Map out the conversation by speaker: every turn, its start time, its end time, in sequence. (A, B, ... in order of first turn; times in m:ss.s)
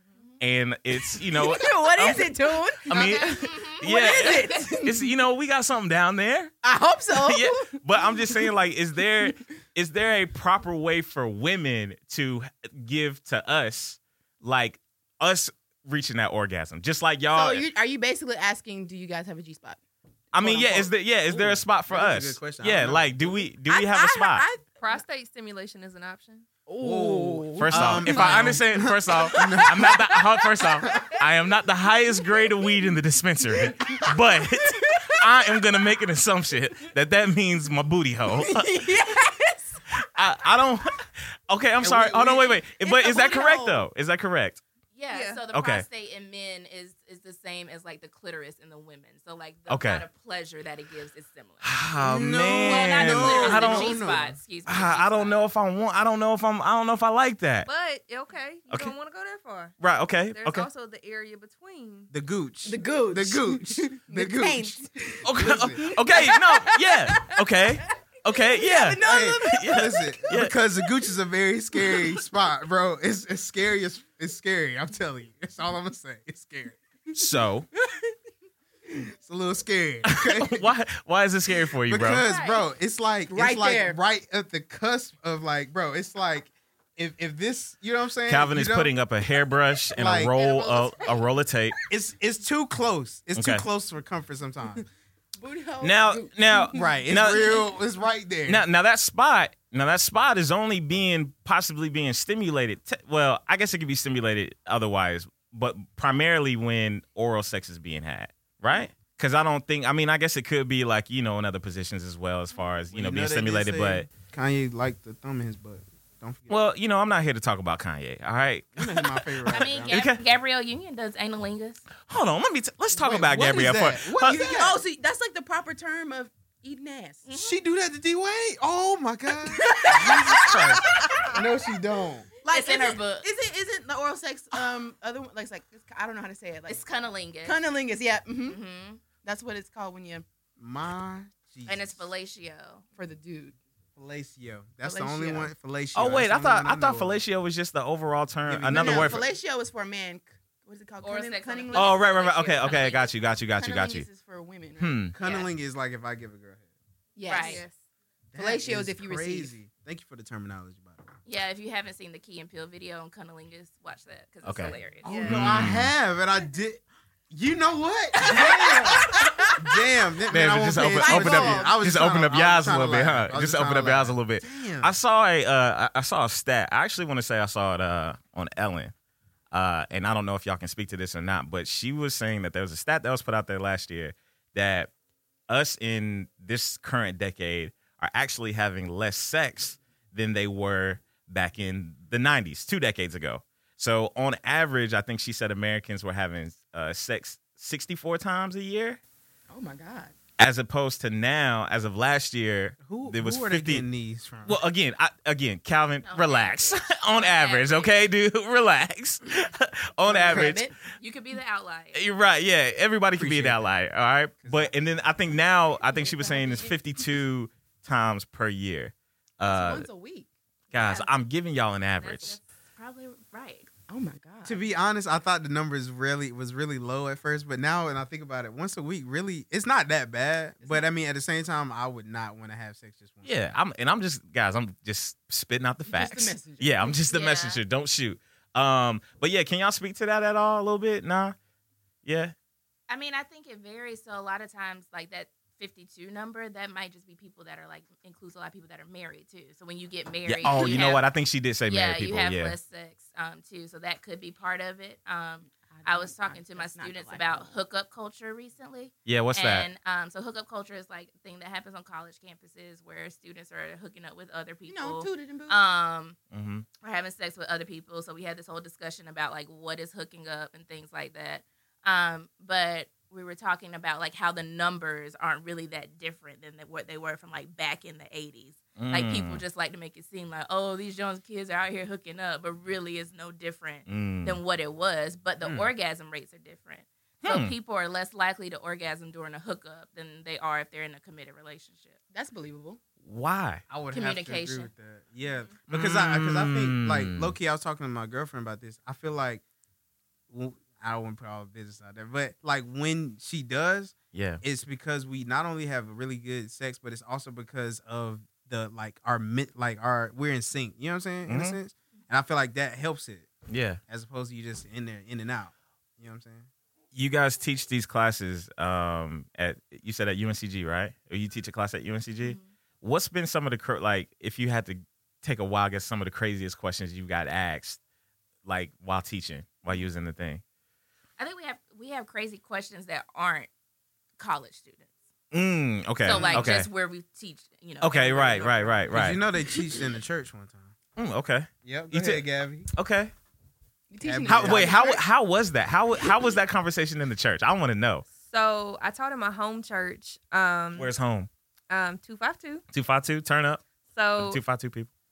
0:00.4-0:06.5 A
0:00.9-0:05.1 B
0:02.9-0:04.6 C
0:06.6-0:08.5 B
0:07.1-0:17.6 A
0:17.3-0:19.8 B
0:20.3-0:24.5 A
0:20.4-0:20.9 B
0:20.4-0:23.4 D
0:23.7-0:25.0 B
0:24.8-0:26.5 E
0:26.7-0:28.2 B
0:26.8-0:30.1 D
0:27.6-0:38.9 A
0:29.2-0:31.0 B
0:33.6-0:35.1 B
0:38.3-0:39.8 B
0:40.0-0:44.6 A
0:41.8-0:42.6 D
0:42.7-0:43.9 B
0:45.0-0:51.8 C
0:45.1-0:45.4 E
0:45.5-0:45.8 A
0:49.7-0:50.0 A
0:51.6-0:57.7 A
0:52.0-0:54.4 D
0:52.6-0:55.4 C
0:57.6-0:59.8 E
0:59.8-1:00.7 A
1:00.3-1:02.1 E
1:02.1-1:05.9 D
1:02.6-1:10.2 B
1:05.2-1:10.5 A
1:09.0-1:16.8 D
1:17.2-1:17.7 A
1:19.2-1:20.7 D
1:20.0-1:22.2 A
1:21.8-1:28.9 D
1:22.1-1:22.6 C
1:23.3-1:24.0 B
1:28.3-1:31.8 A
1:30.0-1:30.4 D
1:30.4-1:30.9 C
1:30.5-1:30.9 B
1:31.9-1:34.8 D
1:33.4-1:33.6 A
1:35.4-1:37.7 B
1:35.8-1:37.6 A
1:36.7-1:38.6 D
1:38.5-1:54.1 A
1:52.9-1:56.5 D
1:56.5-2:00.2 A
1:58.8-2:00.1 D
1:59.5-2:01.8 C
2:02.0-2:04.4 A
2:02.9-2:04.8 D
2:04.2-2:07.2 B
2:07.3-2:07.6 C
2:07.3-2:12.3 D
2:09.5-2:11.4 B
2:12.4-2:16.8 B
2:12.5-2:13.3 C
2:16.7-2:17.6 C
2:17.4-2:18.6 B
2:18.5-2:19.0 C
2:19.2-2:20.2 B
2:20.6-2:22.1 D
2:21.7-2:22.8 C
2:23.0-2:23.6 B
2:24.0-2:27.2 D
2:24.8-2:25.5 B
2:25.9-2:29.3 A
2:28.5-2:29.2 D
2:28.7-2:32.0 B
2:31.0-2:33.3 C
2:31.7-2:34.1 A
2:33.5-2:35.0 B
2:34.8-2:35.2 A
2:35.1-2:36.7 D
2:35.2-2:35.5 C
2:37.2-2:37.6 B
2:37.3-2:37.6 C
2:37.4-2:37.8 E
2:38.3-2:41.1 D
2:38.4-2:39.5 B
2:41.2-2:45.1 C
2:44.4-2:45.9 A
2:45.0-2:45.4 E
2:45.0-2:54.9 D
2:48.2-2:49.6 B
2:50.3-2:58.9 A
2:50.9-2:51.8 B
2:59.5-3:04.9 A
3:05.5-3:19.0 A
3:19.5-3:20.2 B
3:20.4-3:23.8 A
3:22.8-3:24.6 D
3:24.4-3:30.7 A
3:26.0-3:28.0 C
3:30.0-3:30.7 B
3:30.3-3:30.5 D
3:31.0-3:32.0 C
3:31.9-3:39.9 A
3:33.2-3:33.7 D
3:34.4-3:34.7 D
3:35.9-3:36.8 B
3:39.5-3:40.3 B
3:40.7-3:41.1 C
3:40.7-3:42.4 A
3:42.0-3:43.7 C
3:43.9-3:44.6 B
3:44.4-3:53.3 D
3:53.2-4:01.4 A
3:55.9-3:57.0 B
3:57.0-3:57.6 C
4:02.0-4:02.3 A
4:02.9-4:11.1 C
4:10.2-4:12.6 A
4:10.4-4:10.8 D
4:11.6-4:26.2 C
4:15.5-4:17.6 B
4:19.0-4:19.7 A
4:24.7-4:25.6 B
4:26.3-4:26.7 A
4:26.8-4:52.0 C
4:38.8-4:39.4 A
4:43.9-4:44.4 A
4:47.2-4:47.6 A
4:52.1-4:52.8 B
4:53.0-4:53.7 A
4:53.7-4:59.4 D
4:53.8-4:54.7 C
4:55.7-4:57.4 A
5:00.3-5:13.3 D
5:04.1-5:04.4 A
5:11.3-5:11.6 A
5:13.5-5:13.8 A
5:13.9-5:16.5 D
5:16.9-5:27.8 A
5:22.2-5:22.6 C
5:28.4-5:30.4 A
5:31.2-5:33.5 C
5:34.2-5:34.9 C
5:35.3-5:36.7 A
5:36.0-5:38.9 C
5:36.1-5:36.5 D
5:37.8-5:39.2 A
5:38.9-5:40.7 D
5:41.0-5:43.1 A
5:41.6-5:42.7 D
5:43.9-5:45.0 B
5:44.0-5:44.7 D
5:44.3-5:48.1 A
5:48.2-5:50.9 E
5:50.8-5:51.3 A
5:51.7-5:52.6 E
5:52.7-5:53.6 A
5:53.9-5:54.4 E
5:54.2-5:54.9 A